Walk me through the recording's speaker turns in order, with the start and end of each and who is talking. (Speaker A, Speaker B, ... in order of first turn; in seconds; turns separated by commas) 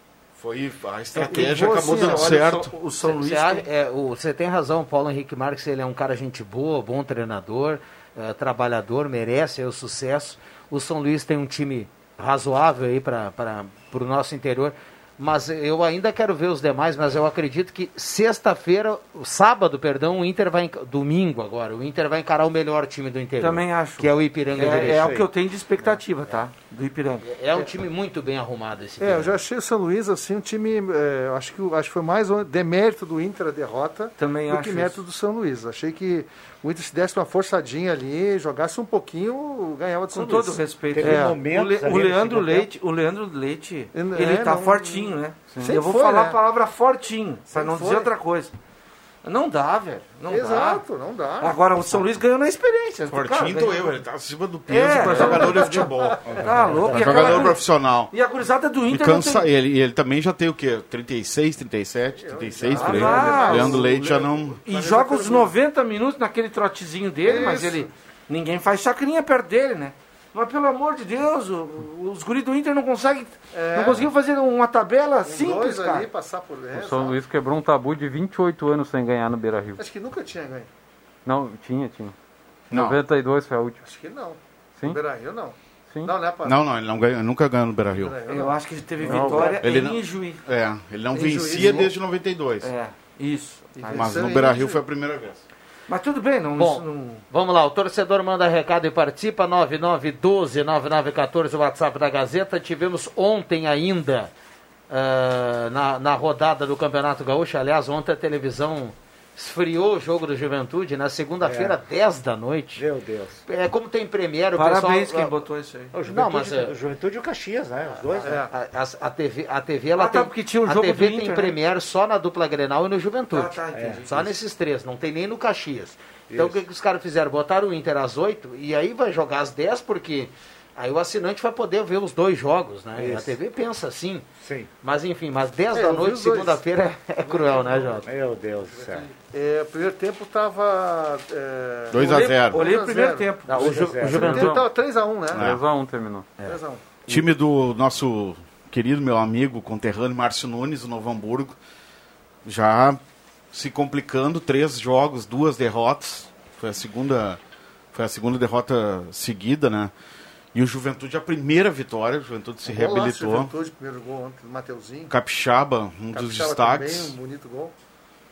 Speaker A: 0.4-2.7, Speaker B: 1.1-3.7, Speaker C: 1.2-2.5, Speaker D: 3.0-25.2, Speaker B: 23.4-27.3, Speaker E: 24.6-25.3, Speaker D: 27.2-29.4, Speaker C: 29.0-41.4, Speaker B: 34.2-35.0, Speaker B: 40.1-48.5, Speaker E: 40.9-42.7, Speaker C: 43.9-46.4, Speaker C: 47.5-48.1, Speaker B: 49.2-50.8, Speaker C: 50.3-51.6, Speaker B: 51.4-54.0, Speaker A: 53.1-58.1, Speaker B: 54.7-55.9, Speaker C: 54.9-56.4, Speaker B: 56.4-59.5, Speaker E: 56.7-57.4, Speaker A: 58.9-64.6, Speaker C: 62.1-65.5, Speaker B: 62.7-76.1, Speaker C: 67.2-67.9, Speaker C: 73.5-74.1, Speaker C: 75.2-77.2, Speaker F: 76.7-79.8, Speaker C: 79.8-80.7, Speaker F: 81.3-82.1, Speaker A: 82.7-83.0, Speaker F: 82.7-83.8, Speaker C: 83.8-86.6, Speaker A: 86.4-88.2, Speaker C: 88.0-89.7, Speaker B: 88.3-90.4, Speaker F: 89.0-89.6, Speaker A: 89.5-92.7, Speaker C: 91.1-91.9, Speaker B: 91.4-91.9, Speaker B: 92.6-94.5, Speaker C: 93.8-94.8, Speaker A: 93.9-95.4, Speaker B: 95.9-97.2, Speaker D: 96.6-104.3, Speaker D: 104.9-112.8, Speaker E: 111.4-111.8, Speaker E: 112.8-113.4, Speaker D: 113.5-115.4, Speaker B: 114.6-115.9, Speaker E: 115.9-118.5, Speaker D: 116.0-116.7, Speaker C: 118.2-118.5, Speaker D: 118.3-123.5, Speaker B: 120.0-121.6, Speaker B: 123.3-124.3, Speaker E: 123.7-124.1, Speaker D: 124.1-134.2, Speaker E: 126.3-126.6, Speaker E: 132.9-133.4, Speaker E: 134.4-134.7, Speaker D: 134.8-138.1, Speaker C: 135.7-136.6, Speaker C: 137.2-138.1, Speaker E: 138.0-139.1, Speaker C: 138.6-145.4, Speaker A: 141.9-142.6, Speaker B: 141.9-144.2, Speaker D: 143.5-144.6, Speaker E: 143.6-144.3, Speaker F: 144.1-144.7, Speaker F: 145.3-146.3, Speaker A: 145.3-145.6, Speaker C: 146.4-147.0, Speaker A: 147.1-151.6, Speaker A: 152.4-153.0, Speaker A: 153.5-157.4, Speaker A: 157.9-159.9, Speaker A: 160.5-163.5, Speaker C: 162.7-165.1, Speaker A: 165.1-167.2, Speaker C: 166.2-167.7